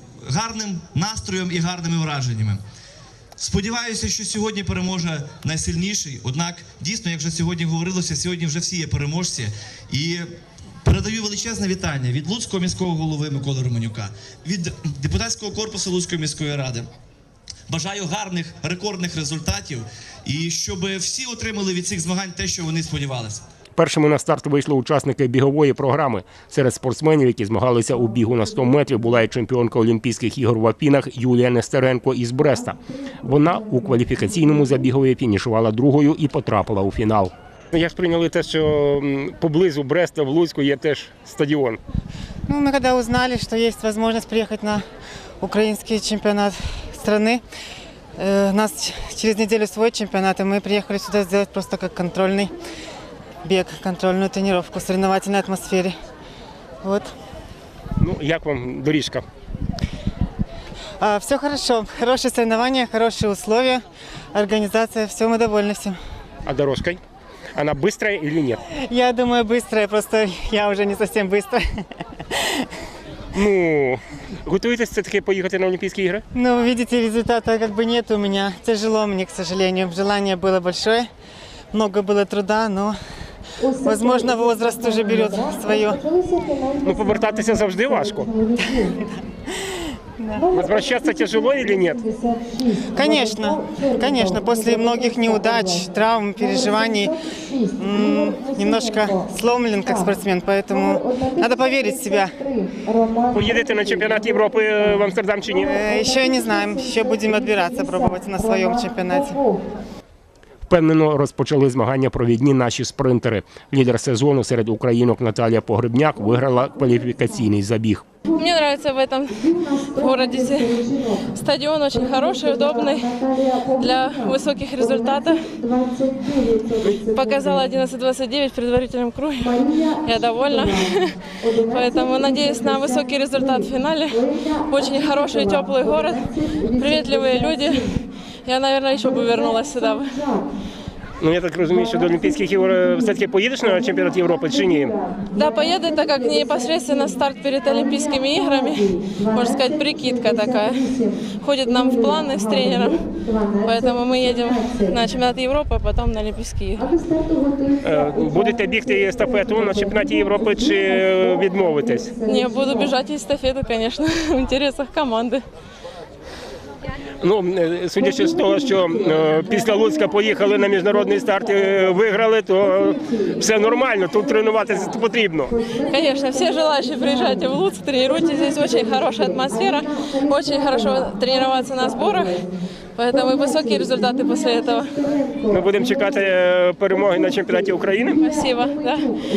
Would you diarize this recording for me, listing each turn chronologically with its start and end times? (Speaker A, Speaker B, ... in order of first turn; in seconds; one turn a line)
Speaker A: 0.2-2.6
Speaker A: 3.4-10.3
Speaker A: 10.8-16.9
Speaker A: 17.7-23.4
Speaker B: 23.8-41.8
Speaker C: 42.5-44.8
Speaker C: 45.4-47.4
Speaker C: 48.2-52.5
Speaker C: 53.4-55.9
Speaker C: 56.8-57.1
Speaker B: 58.0-59.2
Speaker C: 61.0-63.8
Speaker C: 64.3-66.0
Speaker B: 66.4-67.0
Speaker B: 67.5-68.6
Speaker C: 68.8-71.6
Speaker C: 72.3-72.7
Speaker B: 73.3-76.2
Speaker C: 76.3-81.1
Speaker C: 81.7-83.0
Speaker C: 83.8-86.0
Speaker B: 86.8-88.3
Speaker C: 90.2-90.4
Speaker B: 90.5-92.0
Speaker C: 92.9-97.2
Speaker C: 97.8-102.6
Speaker B: 103.3-105.8
Speaker C: 105.6-109.4
Speaker B: 110.7-118.0
Speaker D: 118.3-125.5
Speaker D: 127.0-140.3
Speaker B: 141.2-144.9
Speaker D: 145.3-153.0
Speaker D: 153.6-156.9
Speaker B: 157.8-162.1
Speaker D: 162.2-165.4
Speaker B: 167.2-175.6
Speaker D: 175.8-185.1
Speaker B: 185.5-188.2
Speaker D: 188.2-189.1